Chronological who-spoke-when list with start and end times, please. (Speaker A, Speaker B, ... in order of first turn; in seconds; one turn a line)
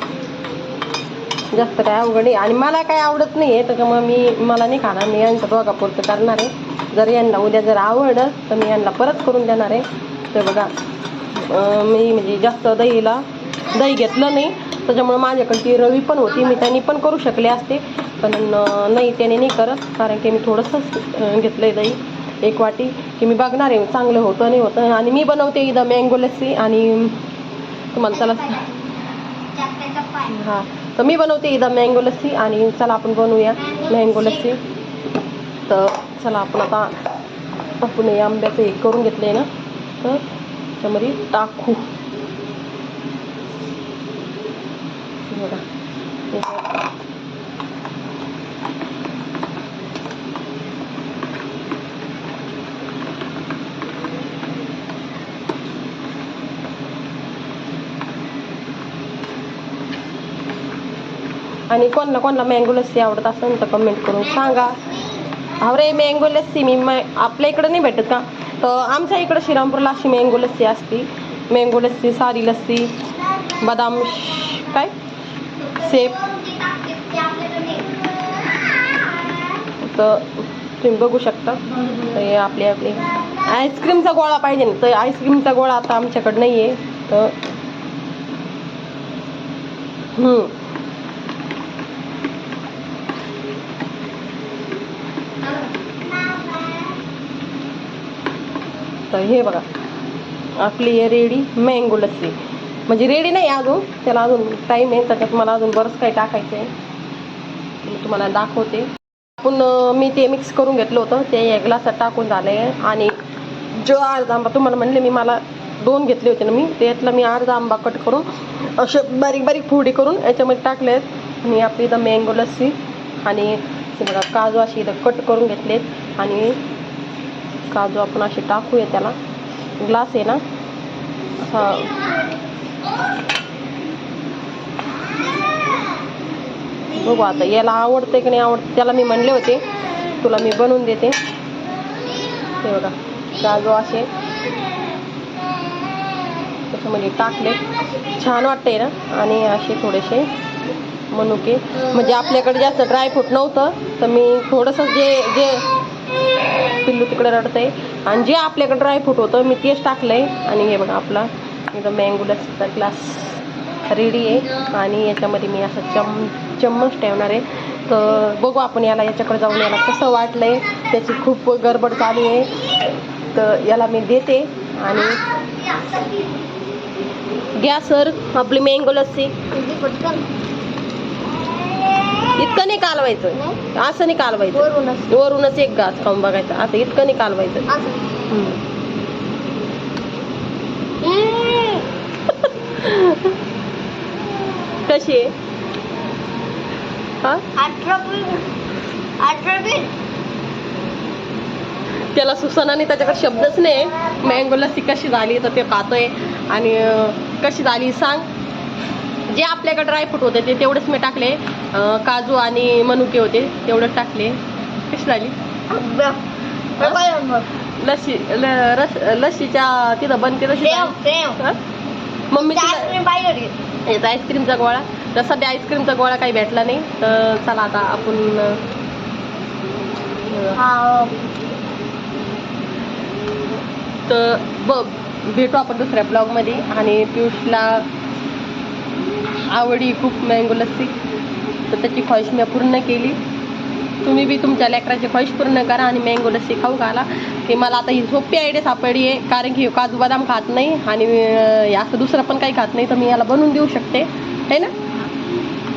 Speaker A: 1.5-10.7
Speaker A: 11.3-27.2
Speaker A: 27.9-28.6
Speaker B: 28.1-28.7
Speaker B: 29.5-30.3
Speaker A: 30.3-34.6
Speaker B: 33.6-34.4
Speaker A: 35.7-36.9
Speaker A: 37.8-39.5
Speaker A: 40.8-41.8
Speaker A: 45.3-45.6
Speaker A: 46.3-46.8
Speaker A: 61.7-65.0
Speaker A: 65.6-72.9
Speaker A: 73.5-74.9
Speaker A: 75.7-76.2
Speaker B: 75.8-78.3
Speaker A: 79.8-87.3
Speaker A: 90.2-90.5
Speaker A: 99.1-99.6
Speaker A: 100.6-102.3
Speaker A: 102.9-106.7
Speaker A: 107.8-108.9
Speaker A: 109.4-113.1
Speaker A: 113.8-118.2
Speaker A: 118.8-126.5
Speaker A: 127.7-129.2
Speaker A: 129.8-130.4
Speaker A: 131.4-132.0
Speaker A: 136.9-139.6
Speaker A: 140.2-141.2
Speaker A: 142.6-144.1
Speaker A: 146.7-150.3
Speaker A: 151.1-155.7
Speaker A: 156.7-172.6
Speaker A: 173.3-175.2
Speaker B: 175.3-176.3
Speaker A: 177.6-179.4
Speaker B: 179.5-180.2
Speaker A: 182.3-187.7
Speaker B: 184.5-185.1
Speaker A: 188.3-188.6
Speaker B: 191.0-191.8
Speaker A: 192.3-193.3
Speaker A: 194.8-195.3
Speaker B: 197.6-198.4
Speaker B: 199.2-199.9
Speaker A: 202.1-208.2
Speaker A: 209.3-215.3
Speaker B: 215.7-216.2
Speaker B: 216.8-217.4
Speaker A: 217.8-221.6
Speaker B: 220.6-221.4
Speaker A: 222.3-223.0
Speaker B: 222.4-223.5
Speaker A: 223.9-228.6
Speaker A: 230.3-230.6
Speaker B: 230.6-231.1
Speaker A: 234.1-237.8
Speaker A: 239.5-240.9
Speaker A: 241.7-243.2
Speaker A: 244.0-254.7